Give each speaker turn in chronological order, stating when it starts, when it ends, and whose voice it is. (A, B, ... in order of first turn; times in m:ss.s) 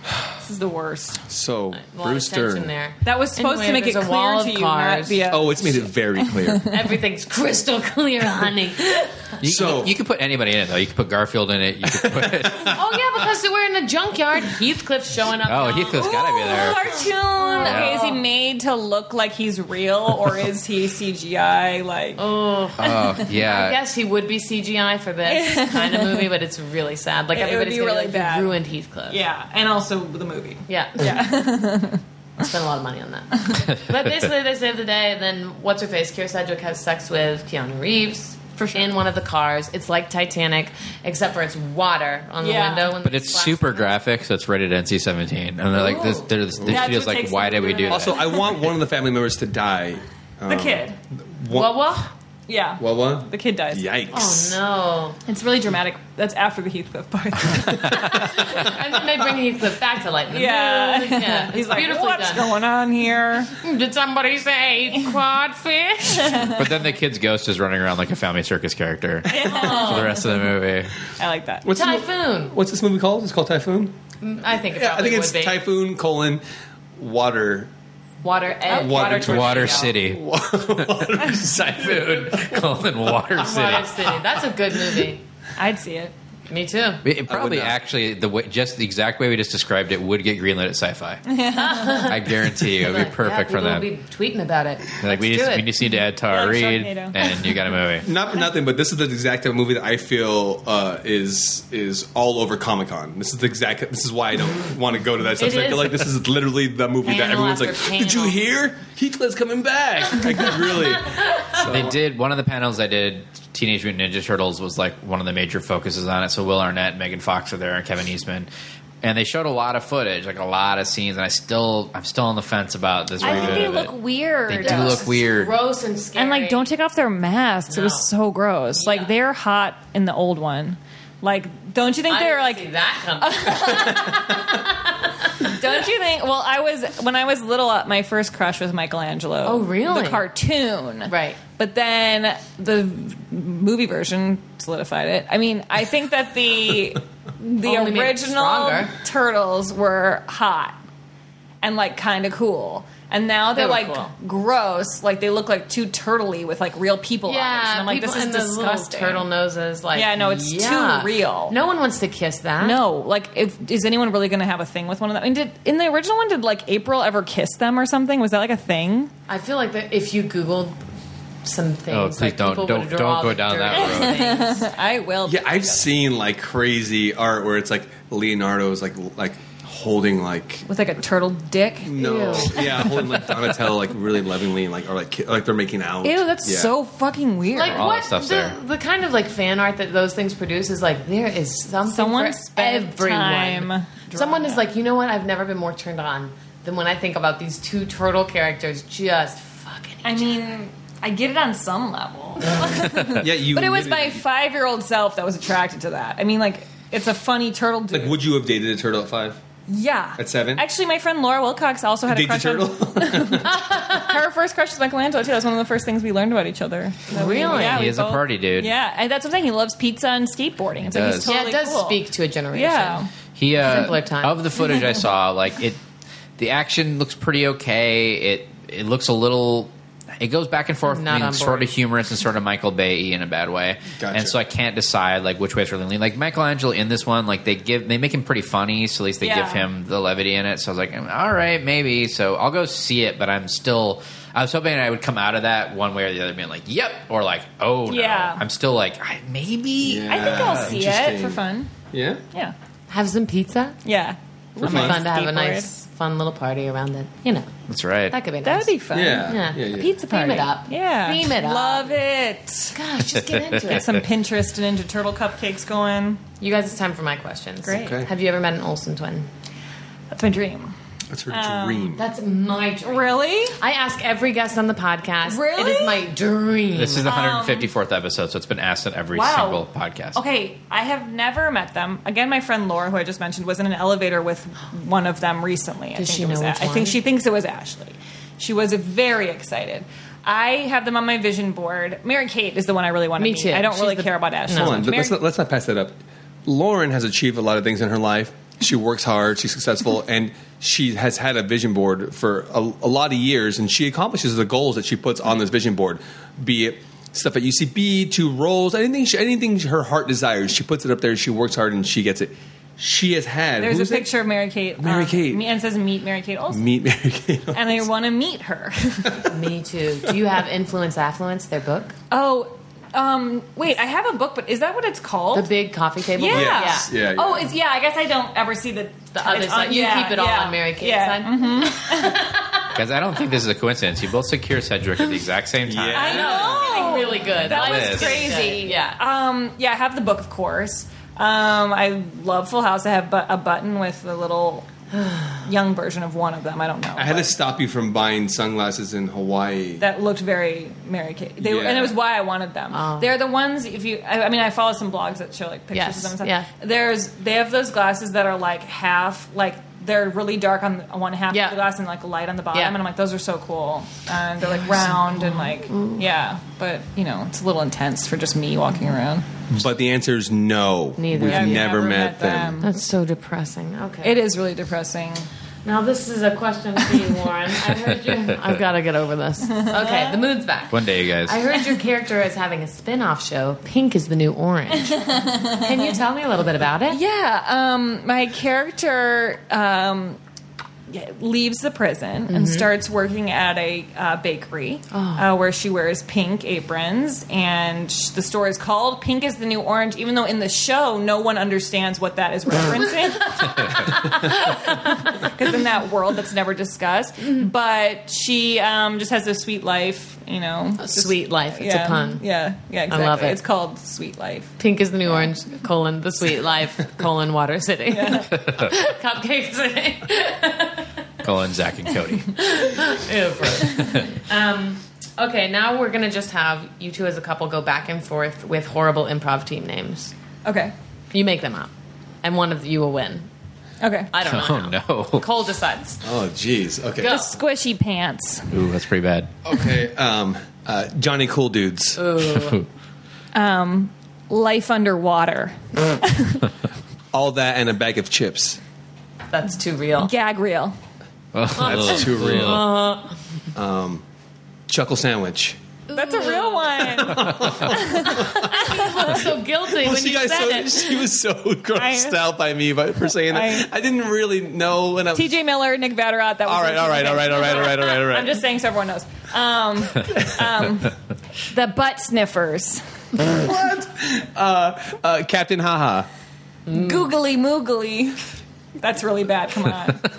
0:00.4-0:01.2 A
0:01.3-0:02.7 B
0:01.7-0:05.2 C
0:03.0-0:06.8 A
0:05.3-0:06.7 B
0:06.7-0:09.4 C
0:09.4-0:12.8 D
0:09.4-0:09.9 B
0:11.9-0:12.8 B
0:12.7-0:16.1 C
0:15.4-0:16.8 D
0:15.9-0:22.2 A
0:16.8-0:18.2 C
0:17.6-0:18.0 D
0:22.2-0:29.2 C
0:22.8-0:23.8 D
0:25.2-0:26.3 A
0:27.3-0:28.5 A
0:29.1-0:32.0 A
0:30.7-0:31.2 C
0:32.4-0:44.0 C
0:38.6-0:38.9 A
0:42.4-0:43.0 A
0:43.0-0:48.4 D
0:45.7-0:46.3 C
0:46.6-0:46.9 B
0:46.6-0:48.6 A
0:47.9-0:51.7 B
0:50.5-0:51.0 A
0:51.5-0:52.1 C
0:52.5-0:53.9 A
0:52.8-0:54.6 B
0:54.1-0:55.2 C
0:55.2-0:58.7 A
0:58.0-1:02.5 C
1:00.3-1:03.5 A
1:03.5-1:06.5 C
1:06.2-1:06.6 A
1:06.4-1:10.9 D
1:09.2-1:10.4 A
1:09.4-1:10.2 C
1:11.2-1:11.6 A
1:11.6-1:13.9 B
1:11.7-1:12.5 C
1:14.2-1:15.6 C
1:14.7-1:16.4 B
1:17.0-1:17.7 B
1:18.2-1:20.0 C
1:18.7-1:22.8 B
1:18.7-1:19.1 A
1:19.1-1:20.2 D
1:20.8-1:24.1 D
1:23.4-1:25.2 C
1:25.6-1:26.1 A
1:26.5-1:27.0 C
1:27.0-1:31.2 D
1:27.3-1:27.8 B
1:31.3-1:32.1 A
1:31.5-1:35.7 C
1:32.0-1:33.9 D
1:35.0-1:38.1 D
1:36.3-1:37.2 A
1:38.0-1:52.0 B
1:45.4-1:46.1 C
1:47.0-1:48.4 C
1:51.1-1:51.6 C
1:51.6-1:58.5 D
1:59.0-2:03.9 D
2:03.2-2:05.1 A
2:03.2-2:03.7 B
2:04.5-2:05.5 D
2:04.6-2:06.7 C
2:06.2-2:14.4 A
2:07.7-2:08.1 C
2:08.7-2:09.1 C
2:12.1-2:15.6 C
2:15.4-2:30.8 A
2:19.4-2:20.2 C
2:21.0-2:21.4 C
2:27.6-2:28.9 C
2:31.6-2:39.2 A
2:33.5-2:34.1 C
2:37.3-2:42.8 C
2:39.9-2:41.6 A
2:42.6-2:49.1 A
2:49.3-2:50.8 C
2:51.4-2:54.6 C
2:51.9-2:54.3 D
2:53.7-2:55.9 A
2:55.2-3:00.6 B
3:00.7-3:03.1 A
3:01.8-3:06.7 B
3:02.0-3:02.6 C
3:06.0-3:07.8 A
3:07.5-3:20.4 C
3:07.6-3:08.5 D
3:11.8-3:14.6 A
3:20.0-3:28.2 A
3:23.2-3:24.2 B
3:27.9-3:29.4 B
3:29.7-3:42.0 A
3:30.2-3:30.6 B
3:32.1-3:33.6 B
3:33.5-3:34.1 C
3:37.1-3:37.9 C
3:37.5-3:38.7 D
3:40.8-3:41.3 D
3:41.2-3:43.0 C
3:42.5-3:43.1 A
3:43.4-3:45.8 D
3:43.6-3:44.4 C
3:46.4-4:10.7 D
3:50.9-3:51.7 C
3:54.0-3:54.4 B
3:59.2-3:59.7 A
4:07.9-4:08.4 A
4:09.8-4:11.4 B
4:10.1-4:11.7 A
4:11.9-4:12.2 B
4:12.9-4:13.8 C
4:13.8-4:15.7 A
4:14.6-4:15.0 B
4:14.6-4:17.5 C
4:17.7-4:18.2 D
4:18.1-4:18.7 C
4:18.4-4:22.8 A
4:18.9-4:19.9 B
4:19.2-4:21.9 C
4:22.7-4:24.0 C
4:23.1-4:23.8 D
4:23.6-4:26.2 A
4:26.4-4:29.3 C
4:27.6-4:28.0 A
4:27.7-4:28.1 B
4:30.1-4:30.7 A
4:31.1-4:32.0 B
4:31.3-4:32.0 A
4:31.9-4:37.1 C
4:32.8-4:33.6 A
4:35.2-4:36.1 A
4:36.8-4:40.2 D
4:37.0-4:37.7 A
4:39.1-4:55.2 A
4:46.0-4:47.0 C
4:53.2-4:54.8 C
4:54.5-5:14.1 B
5:13.6-5:16.6 A
5:14.8-5:15.4 B
5:16.5-5:17.8 B
5:17.5-5:19.3 A
5:19.2-5:21.9 C
5:22.1-5:25.5 A
5:25.3-5:26.9 C
5:26.2-5:32.2 A
5:26.3-5:27.5 B
5:29.1-5:32.8 C
5:32.7-5:36.4 D
5:35.6-5:36.8 B
5:35.9-5:44.7 A
5:36.1-5:39.0 C
5:37.4-5:38.3 D
5:44.9-5:45.4 C
5:45.4-5:47.4 A
5:47.0-5:49.8 B
5:49.8-6:09.2 A
5:51.4-5:51.9 B
5:52.7-5:53.1 C
5:55.7-5:56.5 C
6:01.3-6:01.6 C
6:04.4-6:06.0 C
6:09.5-6:12.6 B
6:11.0-6:11.7 C
6:11.3-6:12.7 A
6:12.6-6:14.2 C
6:14.0-6:15.3 A
6:15.6-6:27.0 C
6:19.6-6:20.1 A
6:20.7-6:21.4 D
6:25.1-6:25.6 A
6:26.9-6:30.2 A
6:30.9-6:54.5 A
6:32.3-6:32.7 C
6:34.9-6:35.2 C
6:43.8-6:45.1 C
6:50.8-6:52.2 C
6:52.9-6:53.4 C
6:54.6-7:00.9 C
6:57.9-6:58.3 A
6:58.3-6:58.7 D
7:01.2-7:02.3 D
7:02.3-7:10.1 C
7:03.6-7:04.1 D
7:10.4-7:10.7 A
7:11.1-7:11.7 C
7:12.2-7:13.3 C
7:13.8-7:14.1 A
7:14.1-7:16.0 C
7:14.2-7:15.2 D
7:16.0-7:17.1 B
7:17.0-7:17.4 C
7:17.0-7:18.6 A
7:18.5-7:19.3 D
7:19.4-7:22.0 B
7:22.0-7:22.6 C
7:22.4-7:22.6 D
7:23.3-7:26.5 A
7:27.1-7:28.6 B
7:29.3-7:30.1 C
7:30.0-7:30.7 A
7:31.3-7:32.7 D
7:31.5-7:33.2 C
7:31.6-7:32.7 B
7:33.5-7:34.0 B
7:34.7-7:35.6 B
7:35.9-7:36.9 C
7:35.9-7:39.2 A
7:36.8-7:45.3 B
7:37.7-7:41.0 C
7:41.7-7:42.3 A
7:43.0-7:43.7 A
7:45.1-7:52.8 A
7:46.4-7:48.4 B
7:53.2-7:56.1 B
7:56.7-7:57.1 C
7:56.7-7:58.2 A
7:58.8-8:00.1 A